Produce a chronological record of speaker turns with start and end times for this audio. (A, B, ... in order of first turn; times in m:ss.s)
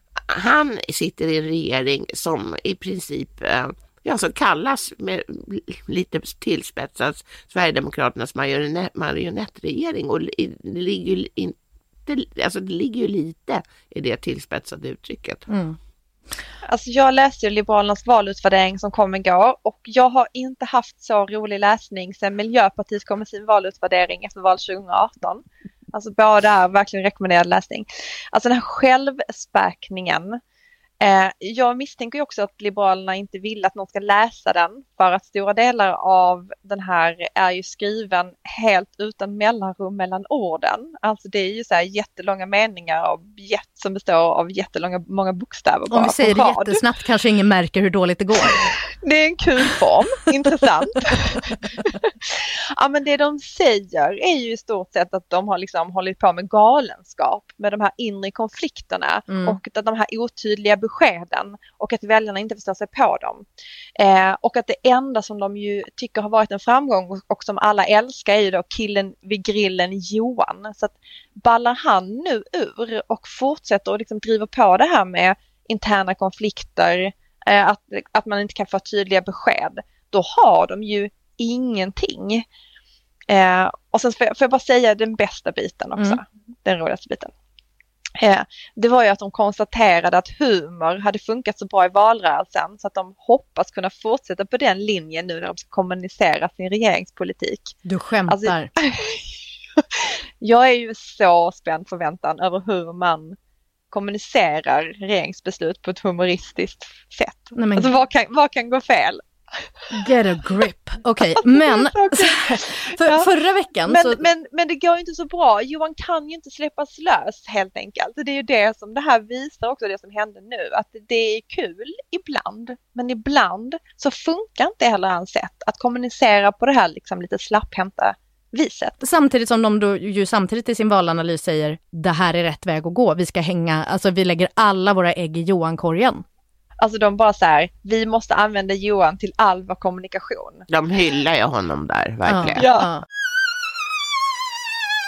0:00.2-0:15.4 A
0:15.5-0:15.8 B
0:16.7-0:30.4 C
0:31.0-0:46.8 C
0:45.9-0:48.7 B
0:48.6-1:03.4 C
0:59.3-0:59.6 B
1:04.0-1:22.5 C
1:23.3-1:27.3 C
1:28.2-1:37.8 C
1:37.9-1:38.7 B
1:38.3-1:43.4 C
1:43.9-1:49.9 C
1:47.6-1:47.9 B
1:49.9-1:54.2 B
1:51.4-1:53.3 C
1:53.9-2:09.0 C
2:09.0-2:16.2 B
2:16.8-2:20.6 C
2:20.7-2:22.6 A
2:22.3-2:23.0 B
2:22.6-2:22.9 C